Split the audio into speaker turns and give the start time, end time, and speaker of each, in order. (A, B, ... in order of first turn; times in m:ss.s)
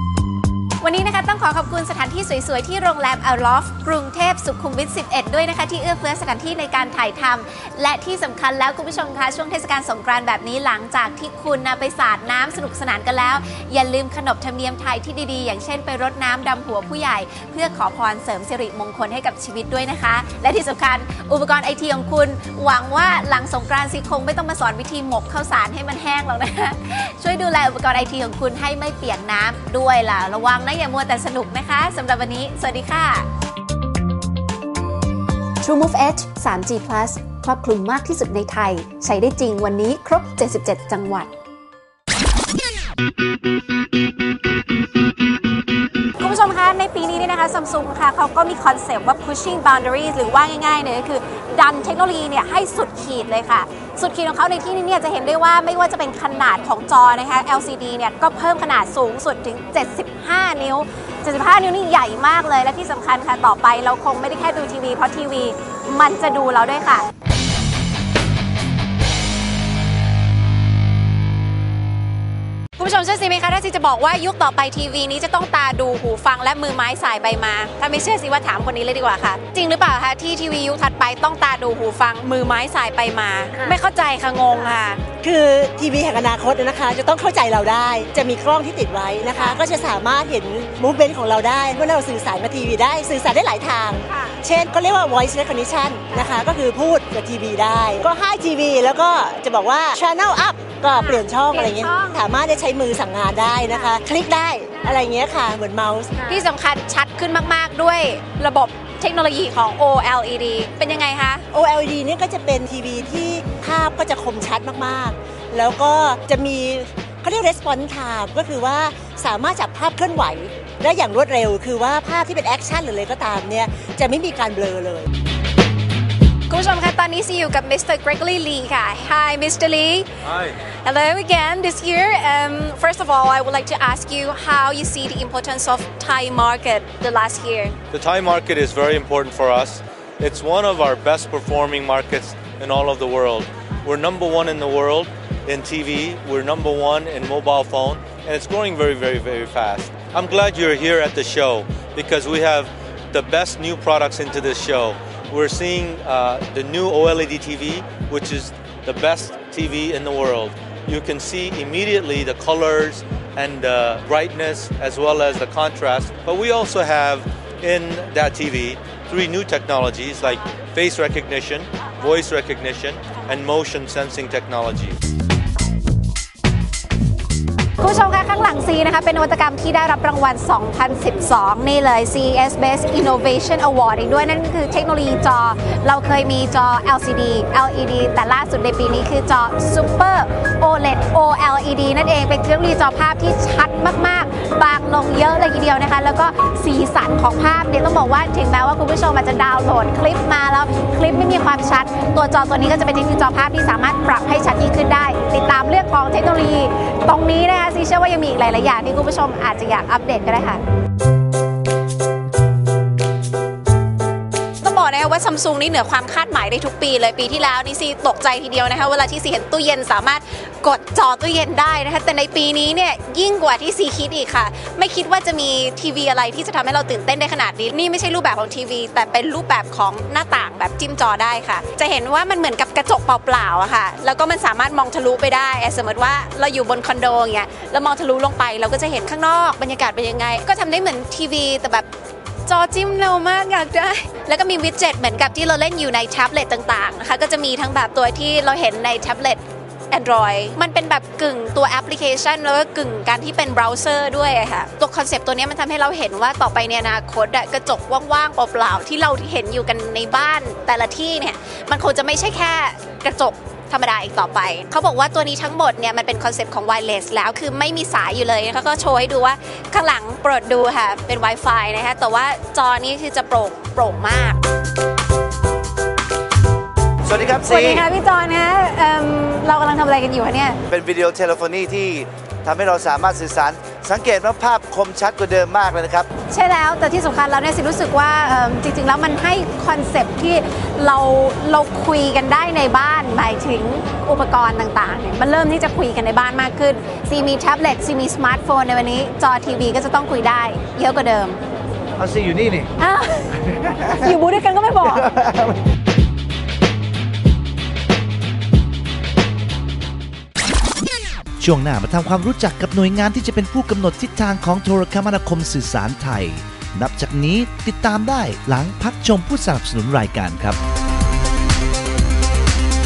0:00.8-0:33.3 A
0:35.6-0:41.3 A
0:46.2-1:07.0 A
1:12.8-1:25.0 A
1:25.2-1:46.4 B
1:29.3-1:29.6 A
1:34.1-1:34.4 A
1:40.9-1:42.2 A
1:46.2-1:51.4 A
1:51.5-2:05.1 B
2:06.5-2:10.1 A
2:10.2-2:10.5 C
2:10.6-2:17.8 A
2:17.9-2:55.0 C
2:57.8-3:30.6 A
3:34.6-4:01.9 A
4:02.5-4:34.4 A
4:37.0-4:37.8 D
4:37.4-4:40.6 A
4:40.7-4:46.1 D
4:46.3-5:01.4 A
5:02.0-5:02.7 D
5:02.8-5:05.1 A
5:05.0-5:05.6 D
5:11.4-5:20.6 E